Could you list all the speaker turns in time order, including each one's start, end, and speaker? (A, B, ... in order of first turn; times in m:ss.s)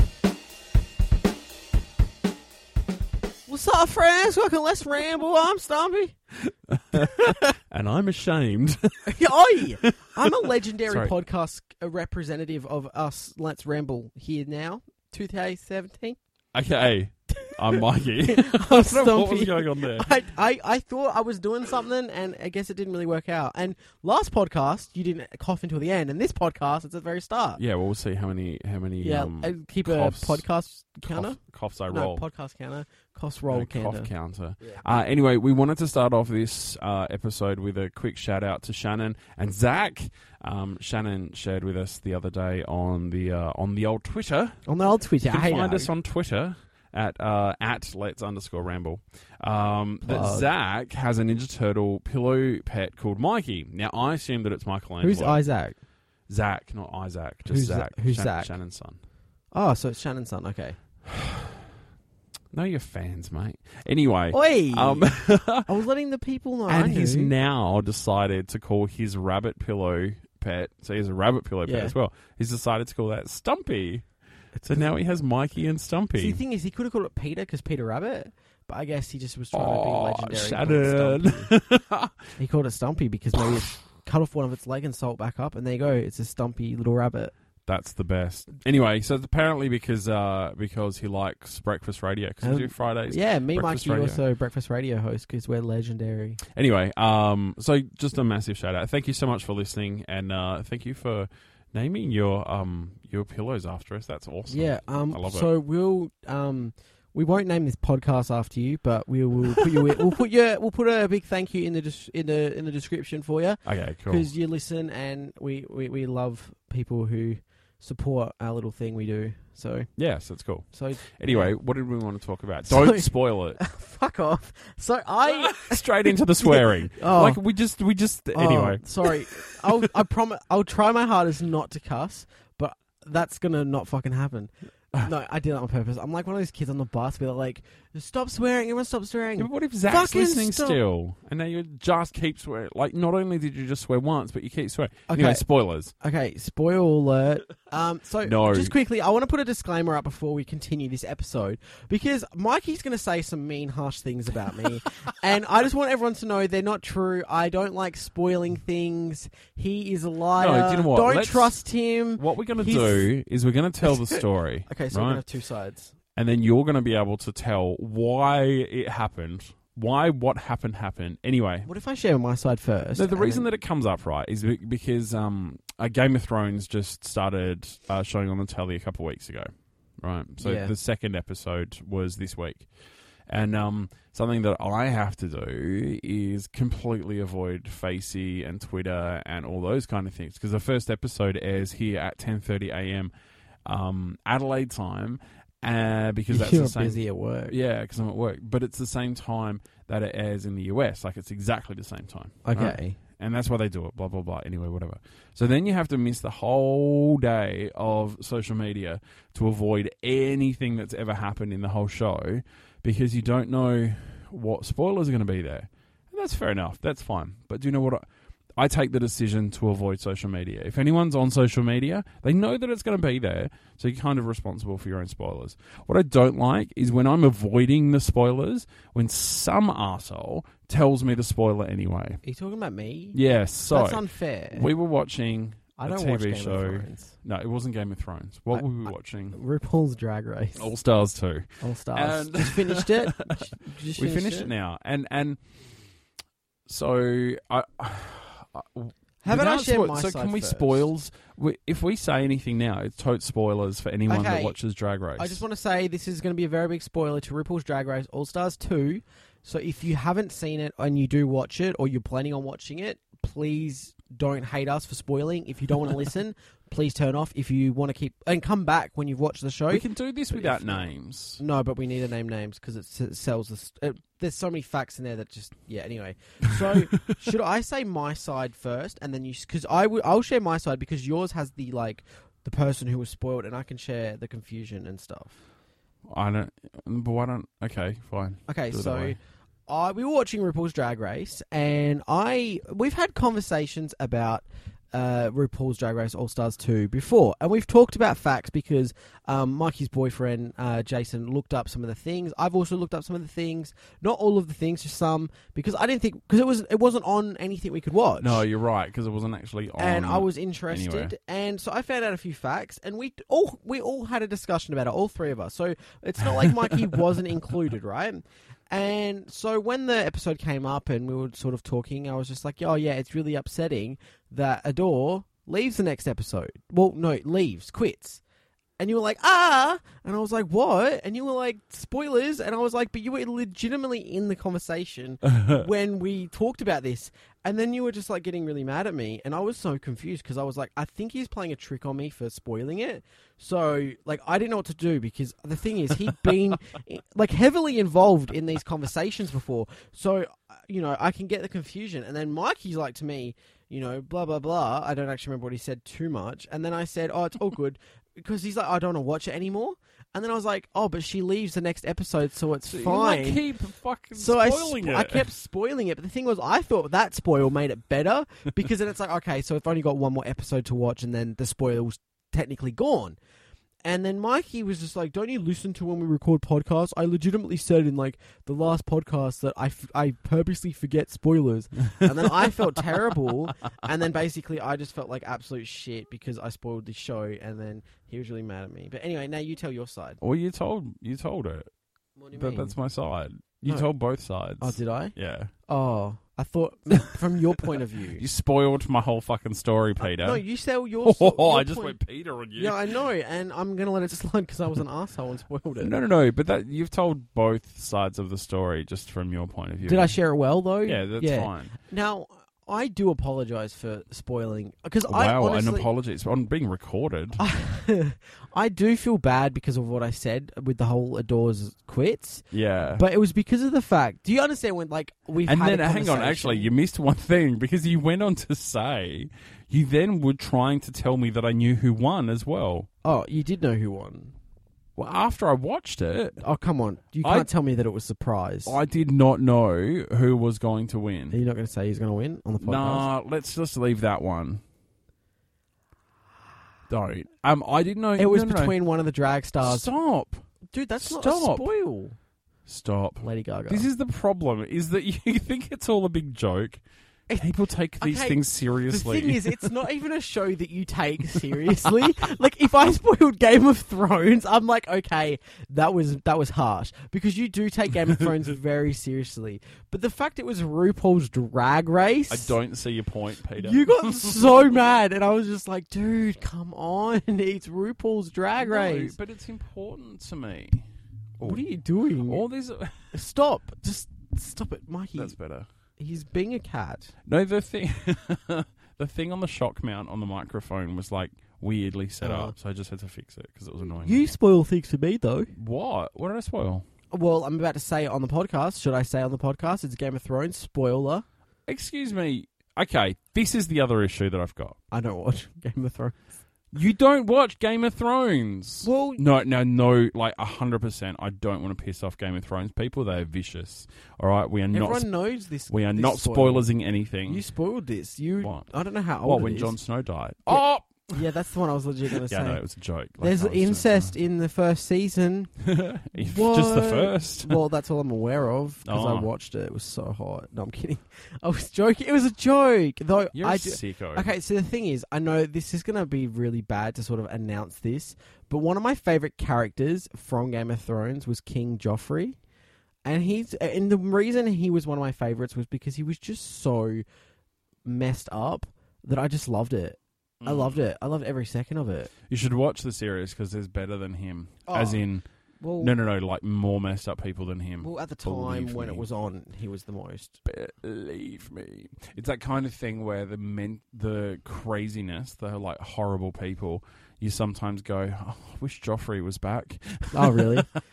0:03.5-0:06.2 A
0:06.7-0:09.2 B
0:09.0-0:16.2 A
0:09.8-0:11.1 B
0:16.5-0:20.1 B
0:17.4-0:27.6 A
0:27.6-0:30.4 B
0:29.0-0:34.8 A
0:31.0-0:32.2 B
0:33.5-0:44.6 B
0:44.7-0:45.9 A
0:45.2-0:55.4 B
0:50.0-0:50.5 A
0:55.0-0:55.8 A
0:56.3-0:59.0 B
0:57.5-0:58.6 A
0:59.5-1:00.8 A
1:01.1-1:01.6 B
1:02.5-1:05.7 B
1:04.3-1:07.3 A
1:06.7-1:14.0 B
1:11.6-1:11.9 A
1:14.6-1:16.4 B
1:16.1-1:21.5 A
1:19.5-1:22.2 B
1:22.4-1:27.3 A
1:27.7-1:34.2 B
1:32.4-1:36.4 A
1:36.5-1:45.5 B
1:44.5-1:59.9 A
1:53.6-1:54.3 B
2:00.0-2:03.6 B
2:00.7-2:01.5 A
2:02.7-2:03.0 A
2:03.6-2:07.4 A
2:05.2-2:09.9 B
2:08.3-2:20.8 A
2:19.4-2:25.9 B
2:25.1-2:25.4 A
2:26.0-2:43.1 A
2:28.2-2:28.8 B
2:40.4-2:41.5 B
2:42.2-2:45.2 B
2:43.8-2:46.0 A
2:46.2-2:51.7 B
2:51.6-2:53.5 A
2:53.0-2:59.5 B
3:00.0-3:02.7 B
3:00.4-3:00.7 A
3:03.3-3:13.1 B
3:13.6-3:38.0 B
3:16.3-3:17.5 A
3:22.4-3:23.0 A
3:38.6-3:52.2 B
3:52.2-3:54.7 A
3:53.1-3:59.4 B
3:55.8-3:57.1 A
3:58.5-4:00.7 A
4:00.6-4:05.4 B
4:01.6-4:04.5 A
4:06.7-4:15.4 B
4:09.2-4:10.9 A
4:14.0-4:14.6 A
4:15.2-4:45.4 A
4:29.7-4:31.4 B
4:46.1-4:49.2 B
4:48.5-5:08.4 A
5:08.2-5:11.1 B
5:09.8-5:28.2 A
5:28.8-6:03.4 A
5:35.3-5:35.6 B
6:02.7-6:05.3 B
6:04.1-6:13.2 A
6:13.8-6:30.2 A
6:22.0-6:22.6 B
6:30.2-6:31.7 B
6:32.2-6:32.8 A
6:32.3-6:35.5 B
6:34.6-6:35.1 A
6:35.7-6:38.2 A
6:38.2-6:40.4 B
6:40.0-6:42.0 A
6:41.0-6:42.9 B
6:42.6-6:45.9 A
6:45.8-6:50.1 B
6:49.8-6:55.9 A
6:50.8-6:51.7 B
6:55.1-6:57.4 B
6:57.4-7:02.4 A
7:02.5-7:03.0 B
7:03.0-7:06.7 A
7:05.4-7:12.9 B
7:13.0-7:14.3 A
7:15.0-7:16.4 B
7:16.4-7:18.8 A
7:18.6-7:21.4 B
7:21.3-7:23.1 A
7:22.6-7:24.6 B
7:26.9-7:28.7 B
7:28.2-7:29.9 A
7:29.6-7:30.4 B
7:30.7-7:32.2 A
7:31.0-7:31.7 B
7:32.6-7:36.8 B
7:33.2-7:33.9 A
7:37.3-7:52.6 A
7:37.3-7:39.7 B
7:41.5-7:42.1 B
7:52.3-7:54.7 B
7:53.6-7:59.2 A
7:58.6-8:00.9 B
8:01.4-8:01.6 B
8:01.4-8:02.4 A
8:02.2-8:03.1 B
8:03.1-8:05.4 A
8:05.2-8:05.7 B
8:06.0-8:07.1 A
8:07.2-8:14.2 B
8:12.2-8:12.5 A
8:14.0-8:15.5 A
8:15.5-8:16.8 B
8:17.1-8:21.2 A
8:21.7-8:24.8 B
8:24.9-8:26.2 A
8:26.7-8:35.1 B
8:28.8-8:29.2 A
8:34.7-8:36.7 A
8:35.7-8:37.4 B
8:37.2-8:39.8 A
8:39.2-8:41.2 B
8:40.5-8:42.6 A
8:42.2-8:44.1 B
8:43.2-8:45.5 A
8:45.6-8:47.6 B
8:46.2-9:02.4 A
8:48.8-8:49.3 B
8:53.3-8:54.3 B
9:03.0-9:07.0 A
9:07.8-9:12.1 A
9:10.4-9:10.8 B
9:12.3-9:15.2 B
9:14.7-9:15.1 A
9:15.6-9:15.9 A
9:15.8-9:19.0 B
9:17.8-9:20.4 A
9:20.4-9:30.8 B
9:30.1-9:30.7 A